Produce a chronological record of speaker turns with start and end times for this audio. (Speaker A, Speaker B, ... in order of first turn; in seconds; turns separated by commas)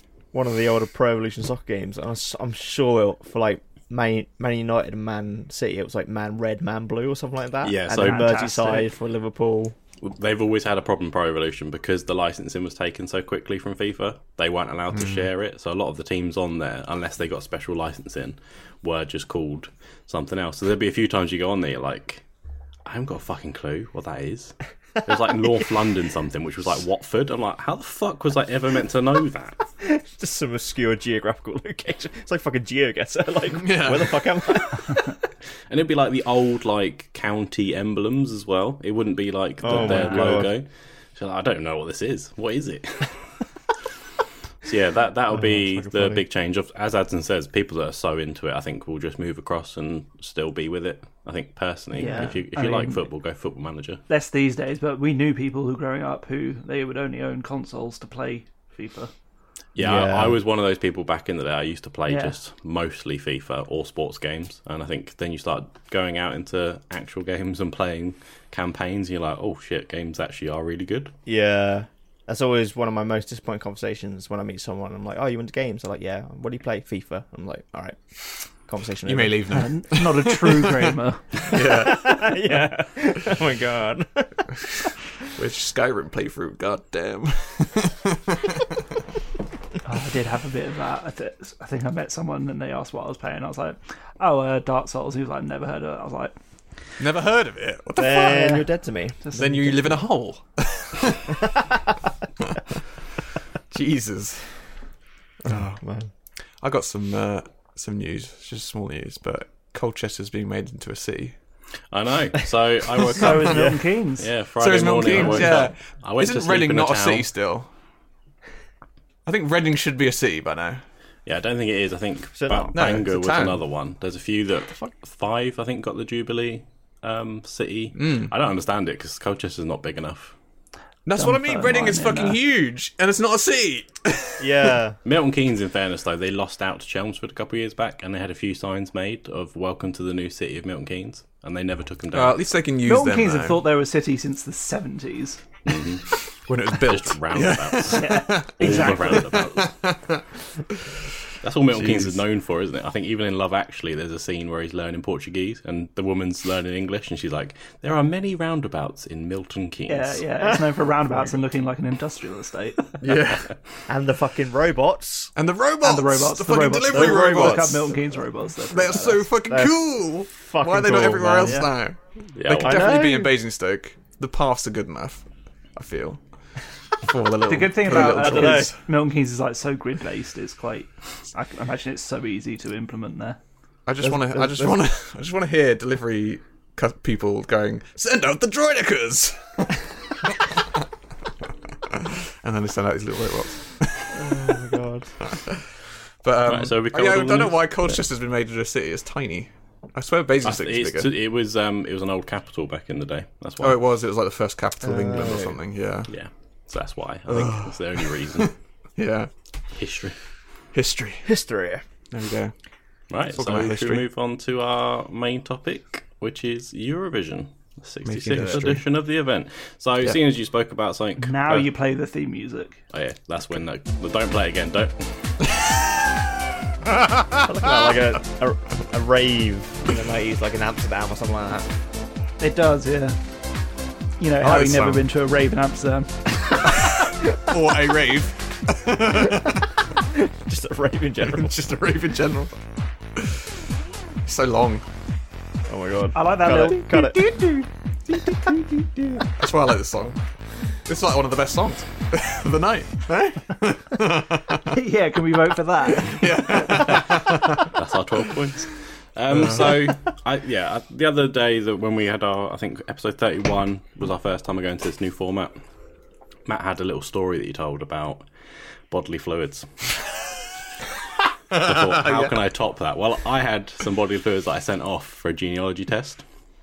Speaker A: 0.3-9.8, Speaker B: 7.6-8.4, Speaker C: 7.9-8.9, Speaker B: 10.0-22.2, Speaker D: 14.9-15.3, Speaker B: 22.9-29.6, Speaker A: 29.8-35.1, Speaker D: 33.6-34.3, Speaker B: 35.7-43.2, Speaker A: 39.6-40.5, Speaker C: 39.7-40.4, Speaker B: 44.6-54.0, Speaker A: 45.3-46.2, Speaker C: 52.0-53.0, Speaker A: 52.0-52.4, Speaker C: 54.1-59.1, Speaker B: 59.8-71.1, Speaker A: 59.8-60.4, Speaker C: 62.1-62.4, Speaker A: 71.3-78.0, Speaker A: 78.6-79.6, Speaker D: 79.1-82.3, Speaker C: 79.5-81.2, Speaker A: 81.5-84.9, Speaker D: 85.3-88.7, Speaker C: 89.8-96.3, Speaker D: 97.0-98.6, Speaker A: 98.0-100.0, Speaker D: 99.3-101.6, Speaker A: 101.5-101.8, Speaker D: 103.7-104.7, Speaker A: 105.4-106.1, Speaker D: 106.6-111.3, Speaker B: 111.9-113.7, Speaker D: 113.0-113.6, Speaker C: 113.1-114.3, Speaker A: 113.4-113.8, Speaker B: 114.2-117.3, Speaker D: 114.6-117.7, Speaker C: 115.0-115.6, Speaker D: 119.3-120.8, Speaker B: 121.3-130.3, Speaker A: 122.4-122.8, Speaker D: 122.7-123.6, Speaker D: 128.0-128.3, Speaker D: 131.1-134.7, Speaker C: 131.2-132.4, Speaker A: 134.4-135.0, Speaker B: 135.1-142.4, Speaker D: 142.1-143.6, Speaker C: 142.8-145.4, Speaker B: 145.7-146.1, Speaker D: 146.3-150.2, Speaker B: 146.7-149.8, Speaker C: 147.9-149.3, Speaker B: 151.4-160.2, Speaker D: 151.7-152.2, Speaker C: 159.9-163.0, Speaker D: 163.0-163.5, Speaker A: 163.9-165.3, Speaker D: 165.4-167.9, Speaker C: 165.8-169.2, Speaker A: 166.9-168.0, Speaker D: 168.7-176.2, Speaker A: 169.4-171.7, Speaker C: 171.4-171.7, Speaker B: 172.3-173.1, Speaker A: 172.6-173.4, Speaker D: 177.0-178.8, Speaker C: 177.5-183.4, Speaker A: 177.9-178.7, Speaker D: 183.9-190.8, Speaker A: 184.0-184.8, Speaker D: 191.9-194.5, Speaker A: 194.1-195.1, Speaker D: 195.2-195.7, Speaker D: 196.2-201.1, Speaker B: 196.5-198.0, Speaker B: 200.4-203.8, Speaker D: 203.6-206.1, Speaker A: 204.8-205.6, Speaker B: 206.1-208.5, Speaker D: 207.3-209.3, Speaker B: 209.7-210.2, Speaker D: 210.7-211.3, Speaker A: 211.2-211.8, Speaker D: 212.1-212.5, Speaker B: 213.1-221.7, Speaker D: 213.3-214.1, Speaker D: 218.1-218.8, Speaker C: 221.2-222.8, Speaker B: 222.9-225.5, Speaker D: 227.0-227.5, Speaker A: 227.3-231.7, Speaker C: 232.4-233.2, Speaker C: 234.2-236.2, Speaker D: 234.4-235.1, Speaker D: 236.8-239.7, Speaker A: 240.0-241.6, Speaker D: 241.2-242.5, Speaker D: 244.2-244.8, Speaker A: 245.7-247.2, Speaker C: 246.1-247.7, Speaker A: 248.2-249.2, Speaker D: 249.3-250.2, Speaker D: 250.9-254.7, Speaker C: 254.7-256.2, Speaker D: 256.0-257.7, Speaker B: 257.6-265.5, Speaker D: 259.3-260.0, Speaker B: 266.5-268.3, Speaker B: 268.9-269.9, Speaker D: 271.5-272.3, Speaker B: 271.5-276.2